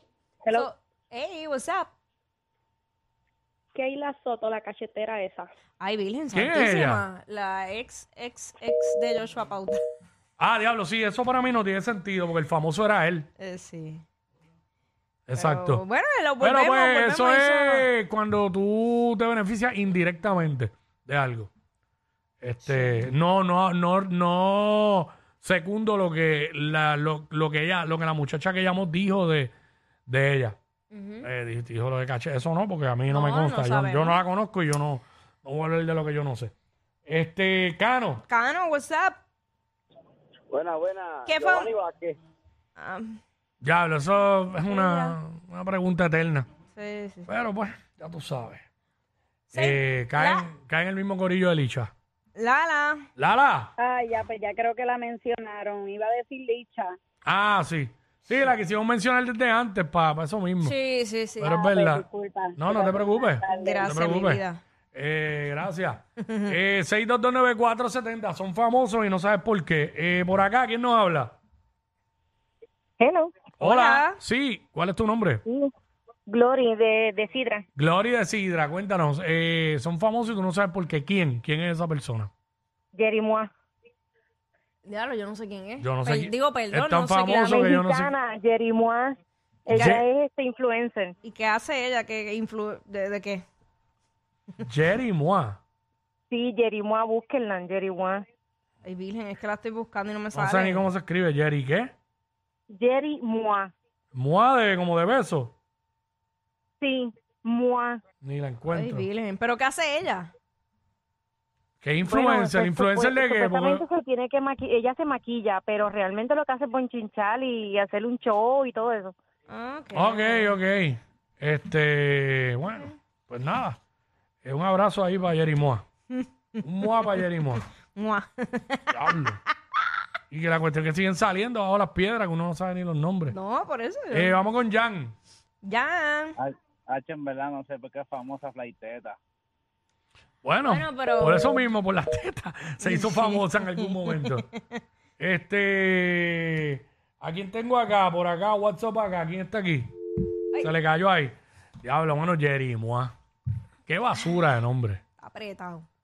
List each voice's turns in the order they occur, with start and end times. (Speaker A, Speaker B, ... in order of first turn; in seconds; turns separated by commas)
Speaker A: 0.5-1.9, Speaker B: 3.7-5.5, Speaker A: 5.8-9.8, Speaker C: 6.3-7.0, Speaker C: 10.4-13.3, Speaker A: 13.4-14.0, Speaker C: 15.3-15.8, Speaker A: 15.3-17.9, Speaker C: 16.4-21.5, Speaker C: 22.4-29.5, Speaker A: 22.6-23.0, Speaker C: 30.1-30.6, Speaker A: 30.9-31.3, Speaker C: 31.2-36.5, Speaker A: 33.1-34.2, Speaker C: 37.1-38.2, Speaker A: 38.3-39.2, Speaker D: 40.5-42.1, Speaker A: 41.2-41.7, Speaker A: 42.8-43.2, Speaker C: 43.6-46.5, Speaker A: 44.7-45.1, Speaker A: 46.8-47.3, Speaker C: 47.3-48.6, Speaker A: 49.5-50.5, Speaker C: 49.5-51.9, Speaker A: 52.3-53.0, Speaker C: 53.2-53.7, Speaker B: 53.8-57.0, Speaker C: 57.2-60.7, Speaker A: 60.6-61.6, Speaker C: 61.4-71.4, Speaker B: 61.5-63.8, Speaker A: 63.5-64.6, Speaker A: 66.2-66.5, Speaker E: 73.0-73.4, Speaker C: 73.6-75.4, Speaker A: 73.6-74.2, Speaker E: 76.3-77.6, Speaker C: 77.8-82.3, Speaker E: 82.9-83.5, Speaker A: 84.8-87.7, Speaker C: 85.8-88.1, Speaker E: 87.4-91.1, Speaker A: 89.7-90.0, Speaker C: 89.7-90.0, Speaker A: 91.2-93.4, Speaker C: 94.6-95.6, Speaker E: 96.3-98.2, Speaker A: 98.8-100.9, Speaker C: 100.3-101.9, Speaker E: 102.7-103.7, Speaker C: 104.1-105.5, Speaker E: 106.8-108.0, Speaker C: 108.2-109.1, Speaker A: 108.7-110.3, Speaker C: 111.8-113.8, Speaker E: 112.0-119.1, Speaker A: 119.5-120.5, Speaker C: 119.9-123.8, Speaker C: 124.4-125.8, Speaker C: 126.6-127.6, Speaker A: 127.9-129.0, Speaker C: 128.9-129.4, Speaker C: 130.3-133.4, Speaker A: 133.3-134.4, Speaker C: 134.1-135.1, Speaker A: 135.6-136.3, Speaker D: 136.4-139.2, Speaker C: 140.4-144.5, Speaker A: 140.7-141.6, Speaker A: 142.8-144.4, Speaker C: 145.2-149.9, Speaker C: 150.6-153.1, Speaker C: 153.9-155.0, Speaker A: 155.2-155.8